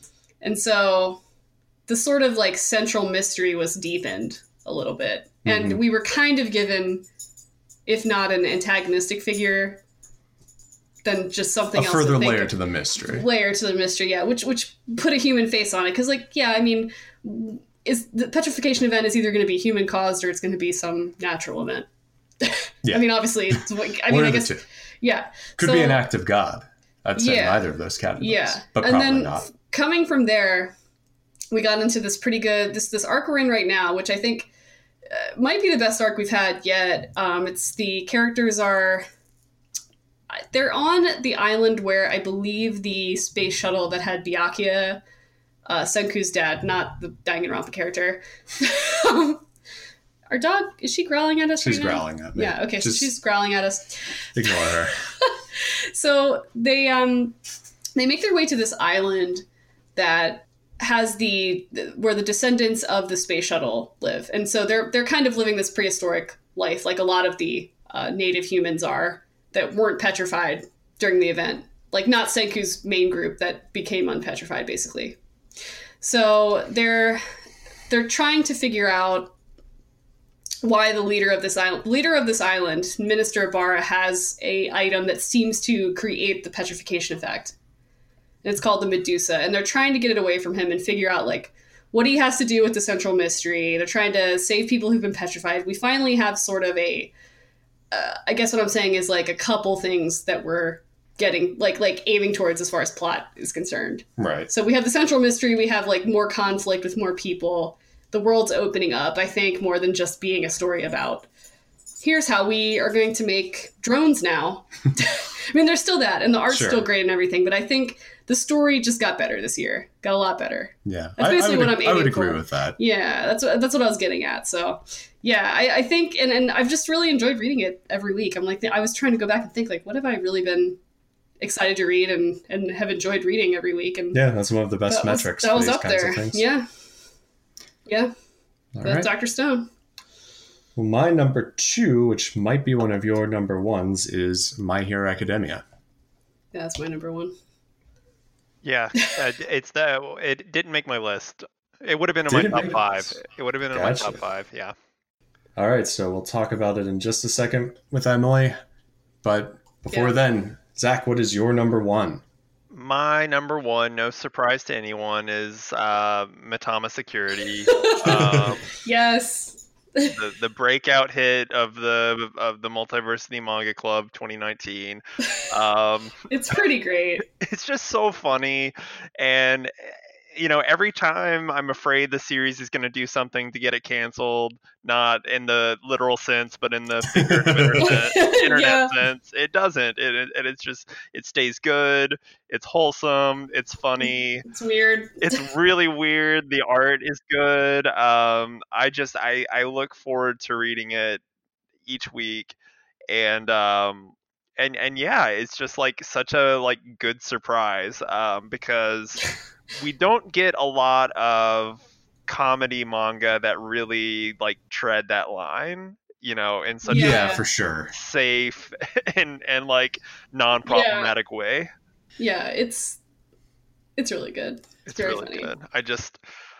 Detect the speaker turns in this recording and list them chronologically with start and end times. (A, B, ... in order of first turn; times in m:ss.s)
0:00.4-0:01.2 A
0:01.9-0:07.0 A
0:05.4-0:05.8 B
0:07.8-0:09.8 A
0:11.0-0:21.9 A
0:11.7-0:13.3 B
0:22.4-0:26.0 A
0:22.8-0:24.6 B
0:25.6-0:29.5 B
0:27.2-0:27.7 A
0:28.2-0:30.7 A
0:31.5-0:34.5 A
0:35.1-0:39.0 A
0:40.3-0:45.0 A
0:45.6-0:49.4 A
0:50.3-0:57.4 A
0:51.6-0:53.1 B
0:54.3-0:54.9 B
0:58.0-1:15.2 A
1:16.0-1:17.2 A
1:17.9-1:19.3 A
1:20.6-1:27.5 A
1:28.4-1:37.1 A
1:37.9-1:51.3 A
1:44.2-1:44.5 B
1:52.0-2:10.8 A
1:56.5-1:56.9 B
2:00.8-2:02.8 B
2:11.4-2:14.2 A
2:14.1-2:16.4 B
2:14.9-2:16.6 A
2:17.8-2:18.1 A
2:18.7-2:19.1 B
2:18.8-2:19.7 A
2:20.8-2:25.6 B
2:26.5-2:27.3 A
2:28.6-2:34.7 C
2:32.3-2:33.2 B
2:33.7-2:34.2 B
2:35.6-2:38.6 B
2:39.2-2:42.2 B
2:39.9-2:40.2 A
2:42.7-2:48.7 C
2:47.7-2:48.2 A
2:48.0-2:48.6 B
2:48.8-2:50.2 A
2:50.1-2:56.2 C
2:56.3-2:57.2 A
2:57.3-3:14.4 C
3:07.1-3:08.0 B
3:07.8-3:08.9 A
3:14.5-3:15.4 A
3:15.2-3:21.2 C
3:21.8-3:22.6 C
3:23.1-3:37.4 C
3:36.9-3:37.4 A
3:36.9-3:37.9 B
3:37.9-3:41.7 C
3:40.6-3:41.1 A
3:42.2-3:43.0 A
3:44.0-3:45.5 A
3:44.8-3:46.2 C